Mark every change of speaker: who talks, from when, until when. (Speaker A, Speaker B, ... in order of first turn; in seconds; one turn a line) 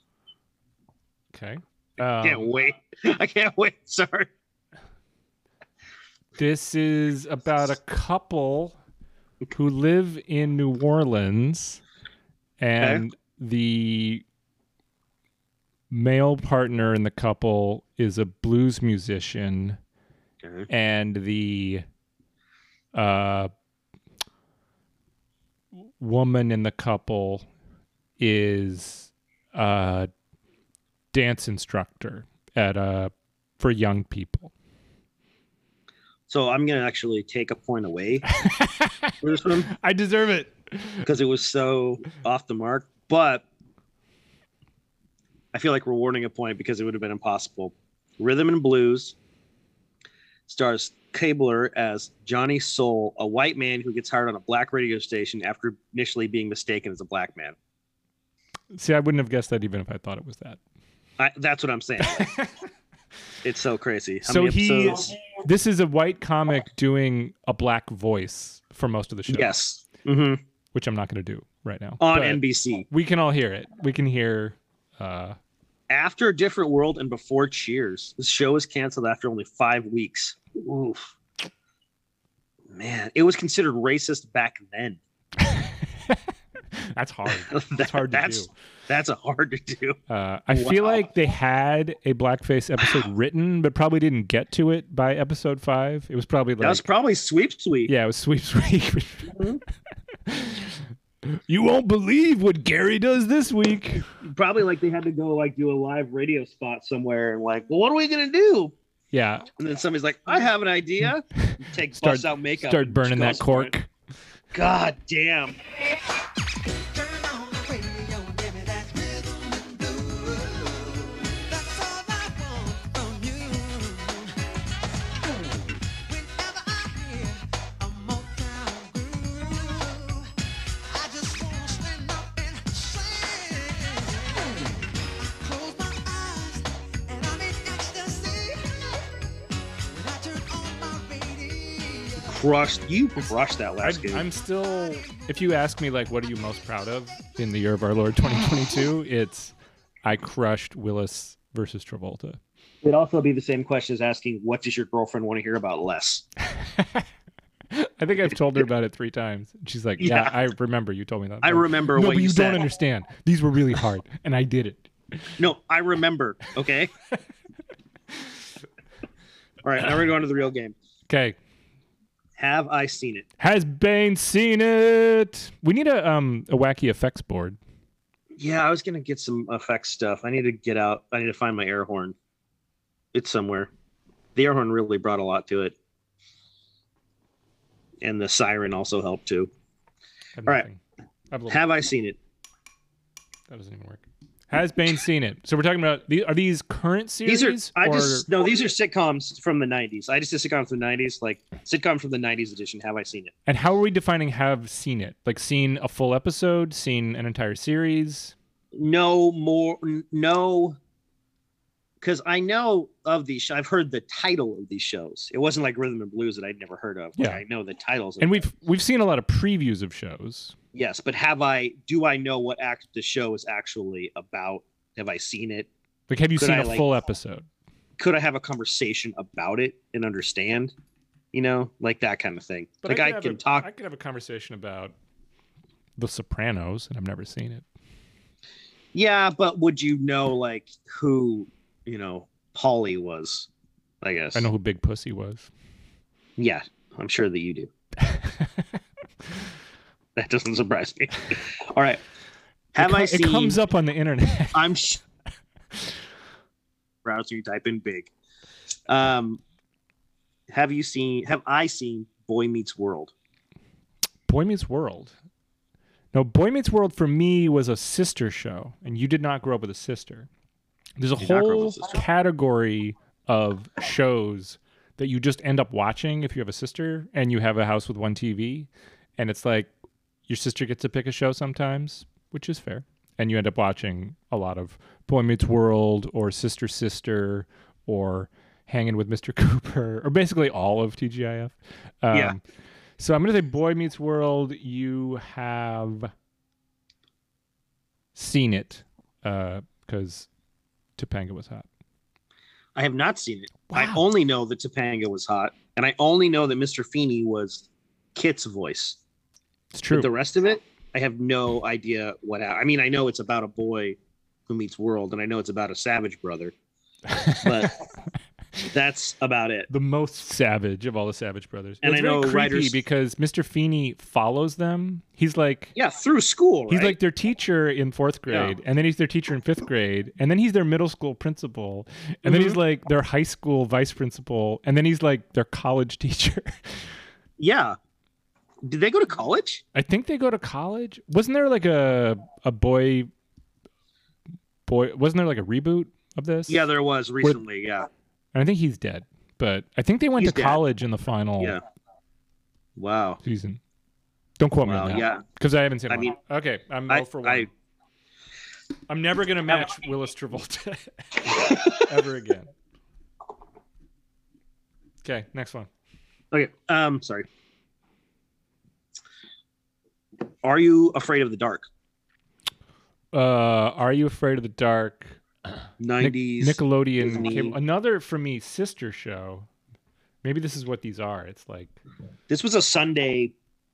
Speaker A: 1.3-2.5
Speaker B: 2.2-4.3
Speaker A: 6.4-8.8
Speaker A: 9.5-11.8
Speaker A: 12.6-14.2
Speaker A: 15.9-19.8
Speaker B: 20.4-20.7
Speaker A: 20.7-21.8
Speaker A: 22.9-23.5
Speaker A: 26.0-27.5
Speaker A: 28.2-30.1
Speaker A: 31.1-34.5
Speaker B: 36.3-38.2
Speaker A: 38.3-39.1
Speaker B: 39.2-39.7
Speaker A: 39.7-41.1
Speaker B: 41.0-43.5
Speaker B: 45.5-49.2
Speaker B: 50.5-57.6
Speaker A: 58.7-60.6
Speaker B: 61.2-62.3
Speaker A: 62.0-62.5
Speaker B: 63.4-65.1
Speaker A: 64.2-69.5
Speaker B: 69.3-70.4
Speaker A: 70.7-75.4
Speaker B: 72.0-72.9
Speaker B: 75.9-81.1
Speaker B: 82.7-85.0
Speaker A: 85.5-86.2
Speaker A: 86.8-88.5
Speaker B: 87.5-90.0
Speaker A: 90.1-96.8
Speaker B: 90.5-91.1
Speaker B: 92.8-93.1
Speaker B: 96.6-97.9
Speaker A: 97.9-99.4
Speaker B: 99.3-99.6
Speaker A: 100.3-100.8
Speaker A: 101.3-104.1
Speaker B: 104.2-108.7
Speaker A: 109.1-109.5
Speaker B: 109.6-113.7
Speaker A: 111.4-113.9
Speaker B: 114.5-115.6
Speaker C: 116.9-124.3
Speaker C: 126.0-130.3
Speaker C: 130.8-139.1
Speaker C: 139.9-142.3
Speaker B: 142.2-144.2
Speaker A: 143.8-149.5
Speaker C: 144.8-145.2
Speaker A: 150.0-152.4
Speaker B: 152.8-156.2
Speaker A: 156.5-157.1
Speaker A: 157.7-165.3
Speaker B: 160.0-160.3
Speaker B: 161.4-162.6
Speaker B: 165.4-166.9
Speaker B: 169.6-170.8
Speaker A: 171.1-171.4
Speaker B: 172.4-173.3
Speaker A: 173.4-177.6
Speaker B: 178.4-182.2
Speaker B: 183.1-183.7
Speaker B: 184.4-185.8
Speaker B: 188.0-189.5
Speaker A: 190.4-191.7
Speaker B: 191.5-192.2
Speaker A: 193.5-198.3
Speaker B: 197.2-203.3
Speaker A: 203.5-208.3
Speaker B: 208.7-210.8
Speaker B: 212.0-218.4
Speaker A: 217.2-217.4
Speaker A: 218.2-220.6
Speaker B: 220.7-225.7
Speaker A: 226.1-227.5
Speaker B: 226.4-226.9
Speaker B: 228.0-230.7
Speaker B: 231.3-233.7
Speaker A: 232.8-234.9
Speaker A: 236.0-237.7
Speaker B: 238.9-243.5
Speaker B: 244.0-244.5
Speaker A: 244.3-245.5
Speaker B: 246.4-247.7
Speaker A: 248.0-248.6
Speaker B: 250.2-252.0
Speaker B: 252.7-253.6
Speaker A: 252.8-254.6
Speaker B: 254.5-255.0
Speaker B: 257.0-258.1
Speaker B: 258.9-259.4
Speaker B: 260.5-263.1
Speaker A: 264.3-265.1
Speaker A: 266.1-270.3
Speaker A: 271.0-279.7
Speaker B: 271.2-271.9
Speaker A: 280.3-292.4
Speaker A: 293.0-296.1
Speaker A: 298.1-300.3
Speaker A: 301.0-301.7
Speaker B: 302.8-309.0
Speaker A: 303.7-304.0
Speaker A: 309.7-310.1
Speaker B: 309.9-316.5
Speaker A: 317.1-317.5
Speaker B: 317.4-317.8
Speaker B: 318.6-319.7
Speaker A: 319.7-325.8
Speaker B: 321.8-322.8
Speaker B: 325.8-327.0
Speaker A: 326.7-336.9
Speaker B: 328.3-328.6
Speaker B: 332.2-332.6
Speaker B: 337.4-337.8
Speaker B: 338.6-339.6
Speaker A: 339.7-343.1
Speaker A: 344.7-346.7
Speaker B: 346.5-347.9
Speaker A: 348.3-351.6
Speaker B: 350.2-350.6
Speaker B: 352.8-353.2
Speaker A: 353.2-353.6
Speaker A: 354.4-357.5
Speaker B: 354.6-355.2
Speaker B: 355.9-356.1
Speaker B: 356.9-357.5
Speaker A: 358.9-362.5
Speaker A: 365.0-365.7
Speaker B: 366.3-367.3
Speaker B: 370.4-371.7
Speaker A: 373.1-375.2
Speaker B: 375.8-377.6
Speaker A: 376.0-379.5
Speaker A: 380.2-381.7
Speaker B: 382.3-383.3